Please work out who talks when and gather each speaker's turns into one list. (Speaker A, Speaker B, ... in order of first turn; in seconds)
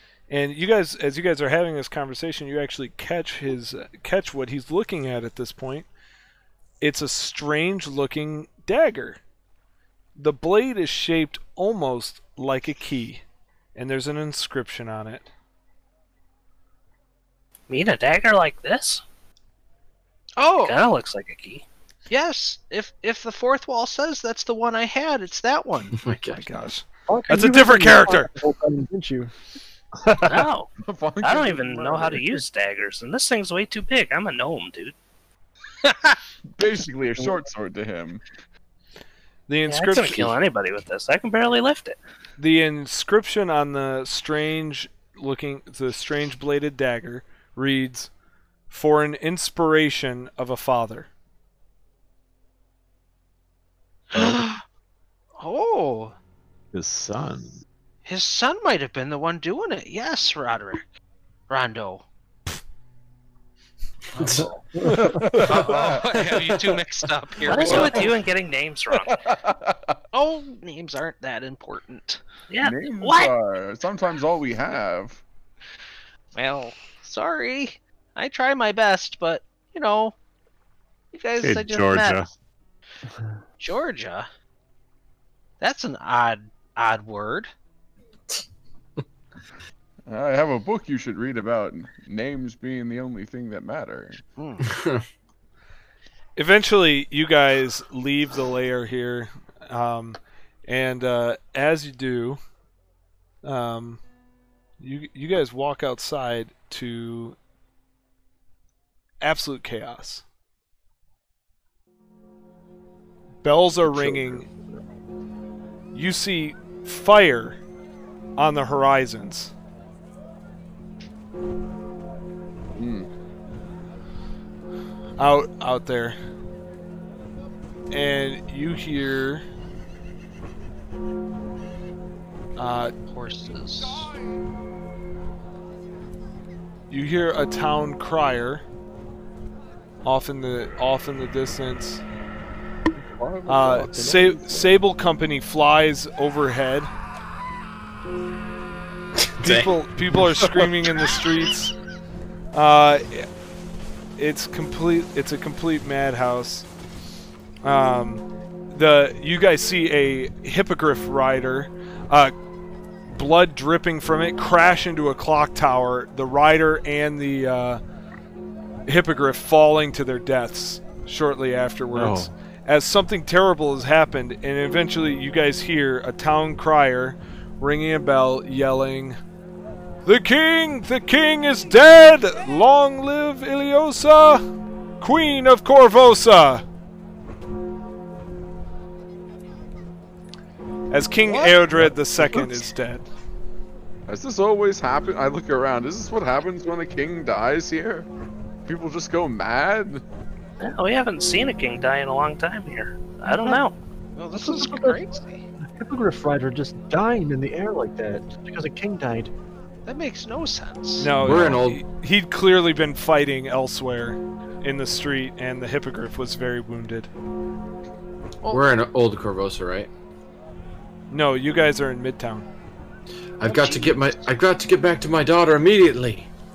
Speaker A: 0.3-5.9, 6.8-9.2, 10.2-13.2, 13.7-15.3, 26.3-28.3, 39.5-40.3, 42.4-48.1, 48.7-51.1, 96.3-102.4, 103.4-104.0, 104.8-107.4, 109.2-110.2, 113.4-114.5, 115.9-117.6, 118.4-119.5, 125.2-126.2, 127.9-129.4, 132.6-132.9, 136.9-138.6, 140.0-142.0, 143.5-146.9, 149.4-151.7, 152.5-153.3, 154.2-156.7, 157.6-162.3, 163.1-167.8, 168.9-179.2, 180.0-184.4, 185.0-186.6, 190.9-193.1, 211.0-217.1, 221.1-222.4
Speaker B: 17.7-19.0, 20.6-21.6, 30.2-30.7, 31.2-34.9, 39.7-42.0, 67.5-69.1, 72.5-73.3, 200.6-203.7
Speaker C: 20.4-20.8, 22.1-25.9, 35.8-36.2, 54.1-54.6, 55.4-56.2, 58.0-60.9, 61.5-62.1, 65.5-68.5, 70.1-72.2, 76.3-80.2, 81.1-82.2, 83.6-84.3, 85.6-87.5, 94.3-94.7, 133.1-134.1, 204.2-205.4, 209.8-211.1, 223.4-224.0
Speaker D: 25.9-26.6, 64.2-64.5, 94.6-95.0, 149.2-149.8, 211.2-211.8, 218.5-219.9, 223.4-226.3
Speaker E: 27.1-29.3, 203.2-203.6, 204.4-205.0, 205.6-209.3
Speaker F: 30.0-30.4, 54.1-54.4, 56.7-57.6, 64.4-65.9, 81.4-82.3, 171.9-172.3, 211.3-211.6
Speaker G: 30.8-32.4, 36.6-38.2, 64.9-65.8, 67.5-68.1, 69.1-69.9, 72.6-75.2, 90.1-94.2, 113.9-114.5, 122.8-123.1, 142.9-144.7, 150.4-150.7, 191.3-192.7, 194.1-198.1, 198.7-200.0